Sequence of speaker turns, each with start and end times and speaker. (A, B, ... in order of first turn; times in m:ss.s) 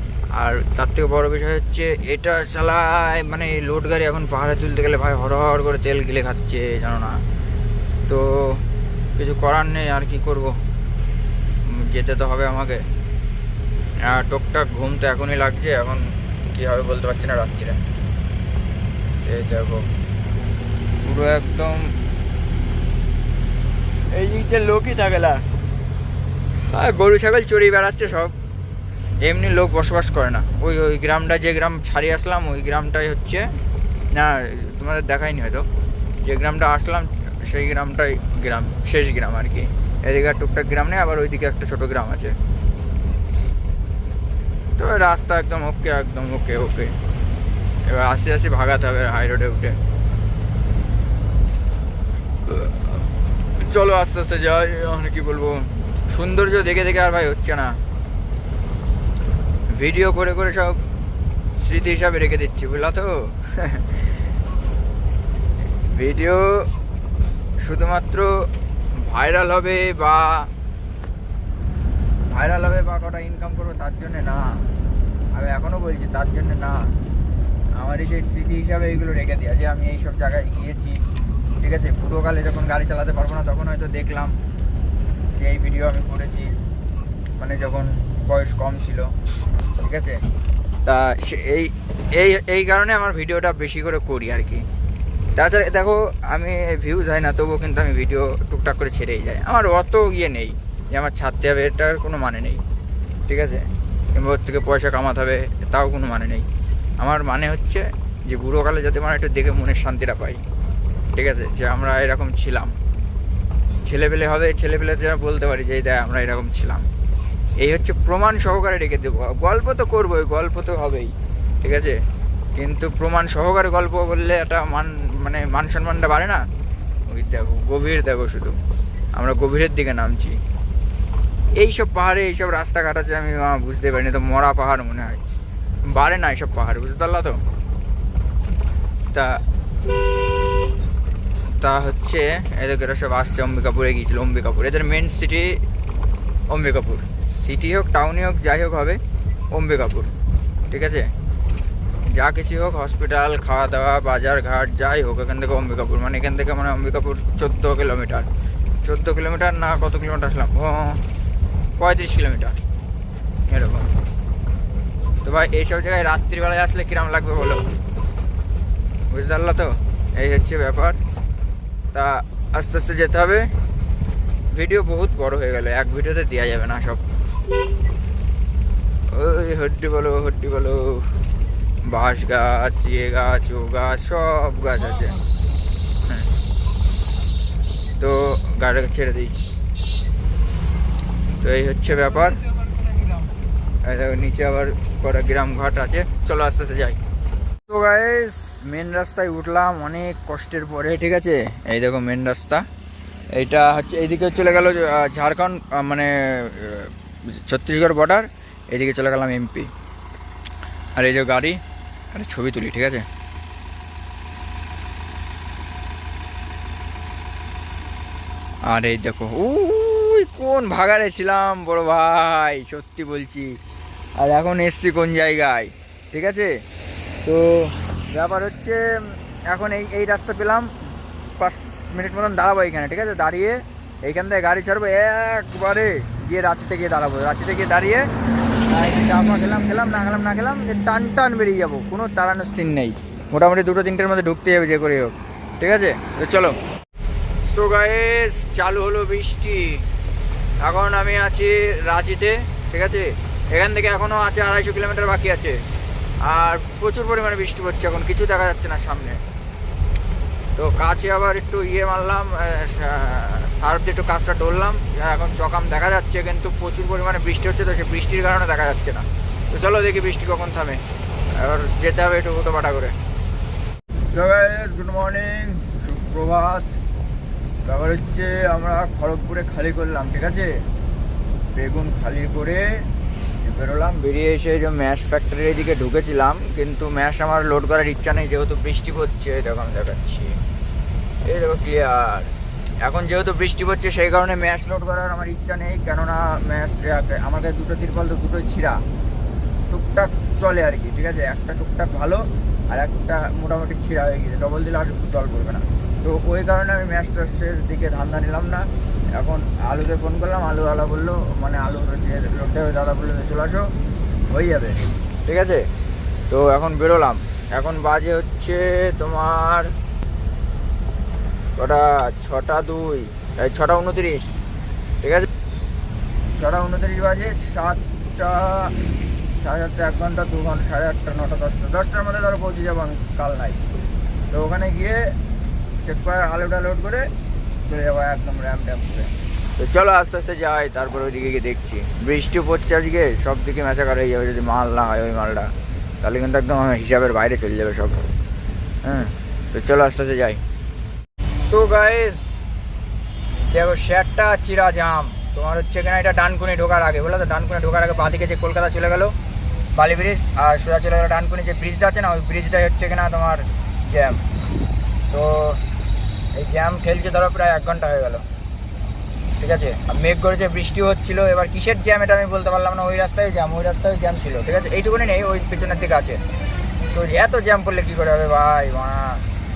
0:00.4-0:07.2 A
0:08.1-0:08.6 A
0:09.2-0:10.5 A
0:11.7-0:12.8 A
0:14.1-0:17.8 A
0:19.2-0:19.9 A
0:21.0-0:21.9 A
0:24.1-0:25.4 A
0:26.7-0:28.3 A
0:29.2-0:33.4 A
0:34.1-0:35.7 A
0:36.2-0:42.4 A
0:44.8-0:47.0 A
0:47.9-0:49.8 A
0:52.5-0:53.0 A
0:53.6-0:57.8 A
0:59.8-1:00.8 A
1:01.6-1:04.0 A
1:05.9-1:06.5 A
1:07.6-1:08.3 A
1:09.0-1:10.5 A
1:12.3-1:14.6 A
1:15.3-1:16.8 A
1:17.8-1:21.0 A
1:21.6-1:24.3 A
1:25.4-1:26.5 A
1:27.4-1:29.1 A
1:29.8-1:30.2 A
1:30.8-1:34.6 A
1:35.4-1:42.6 A
1:43.3-1:46.4 A
1:47.0-1:50.4 A
1:51.2-1:52.7 A
1:53.8-1:56.9 A
1:57.6-2:01.1 A
2:01.6-2:02.0 A
2:02.6-2:06.4 A
2:07.1-2:08.6 A
2:09.1-2:10.4 A
2:11.6-2:15.2 A
2:15.9-2:17.4 A
2:19.1-2:19.4 A
2:21.6-2:25.6 A
2:26.5-2:29.0 A
2:29.5-2:30.1 A
2:30.7-2:31.1 A
2:32.1-2:38.3 A
2:38.8-2:41.0 A
2:41.8-2:42.6 A
2:43.5-2:43.9 A
2:45.2-2:47.6 A
2:49.1-2:51.0 A
2:51.9-2:53.5 A
2:54.5-2:57.0 A
2:59.1-3:01.1 A
3:01.9-3:05.2 A
3:08.0-3:09.4 A
3:11.4-3:12.5 A
3:13.8-3:17.0 A
3:17.7-3:22.6 A
3:23.4-3:26.9 A
3:27.5-3:29.7 A
3:31.0-3:31.6 A
3:32.1-3:33.0 A
3:38.7-3:43.6 A
3:44.2-3:46.5 A
3:47.2-3:50.7 A
3:51.4-3:58.1 A
3:58.7-4:06.6 A
4:07.5-4:09.8 A
4:10.6-4:15.6 A
4:16.2-4:19.2 A
4:20.6-4:30.8 A
4:31.4-4:33.0 A
4:34.1-4:36.8 A
4:37.7-4:40.5 A
4:41.6-4:42.6 A
4:43.4-4:50.3 A
4:51.3-4:52.3 A
4:52.8-4:58.8 A
4:59.7-5:13.7 A
5:14.3-5:15.6 A
5:16.3-5:19.7 A
5:21.6-5:24.3 A
5:25.0-5:25.3 A
5:26.4-5:28.7 A
5:29.4-5:33.6 A
5:34.3-5:35.0 A
5:35.8-5:37.1 A
5:37.6-5:45.5 A
5:46.0-5:48.0 A
5:48.8-5:50.4 A
5:51.5-5:52.3 A
5:53.4-5:59.2 A
5:59.7-6:04.2 A
6:05.1-6:05.6 A
6:06.4-6:08.2 A
6:09.4-6:16.2 A
6:16.9-6:19.2 A